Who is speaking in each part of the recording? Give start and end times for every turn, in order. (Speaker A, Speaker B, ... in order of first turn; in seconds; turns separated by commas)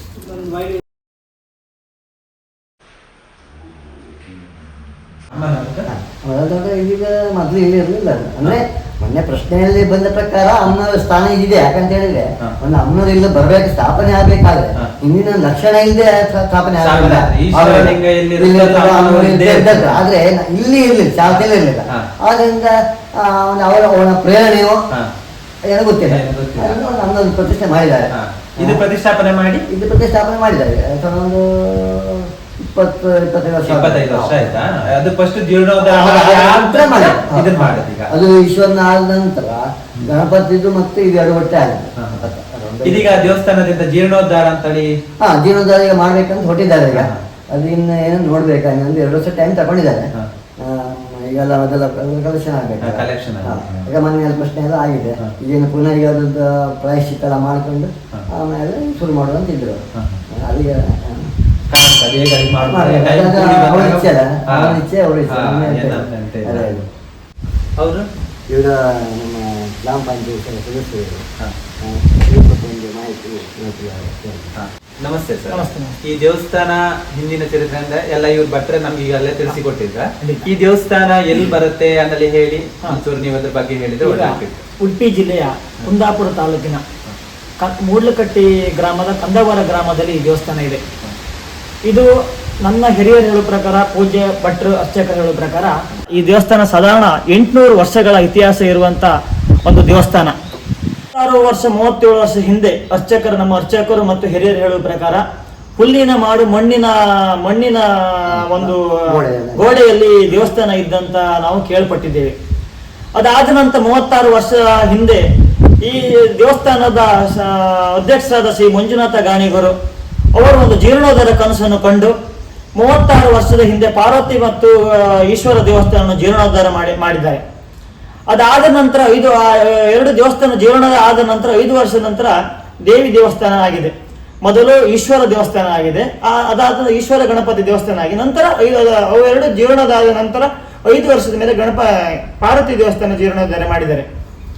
Speaker A: 0.3-0.7, Speaker A: 5.3-5.9, Speaker B: 5.9-24.9, Speaker A: 16.8-20.0, Speaker A: 21.2-22.1, Speaker B: 25.6-28.9, Speaker A: 26.1-26.8, Speaker A: 28.1-29.6, Speaker B: 29.7-34.6, Speaker A: 33.6-38.1, Speaker B: 35.8-43.4, Speaker A: 42.0-42.3, Speaker A: 42.8-44.9, Speaker B: 45.2-61.3, Speaker A: 46.9-47.2, Speaker A: 52.8-53.9, Speaker A: 59.9-60.2, Speaker A: 61.7-66.9, Speaker B: 62.6-66.8, Speaker A: 67.8-68.1, Speaker B: 68.5-71.2, Speaker B: 71.8-74.5, Speaker A: 74.6-84.6, Speaker C: 75.5-76.0, Speaker C: 80.2-80.5, Speaker C: 84.0-86.8, Speaker C: 87.6-90.8, Speaker C: 92.6-99.1, Speaker C: 99.7-100.3, Speaker C: 101.1-105.2, Speaker C: 105.8-108.8, Speaker B: 108.3-109.7, Speaker C: 109.5-112.3, Speaker C: 113.2-115.2, Speaker C: 115.8-119.7, Speaker C: 120.3-122.1, Speaker C: 122.8-127.4, Speaker C: 128.3-132.3, Speaker C: 132.9-133.9, Speaker C: 134.4-144.1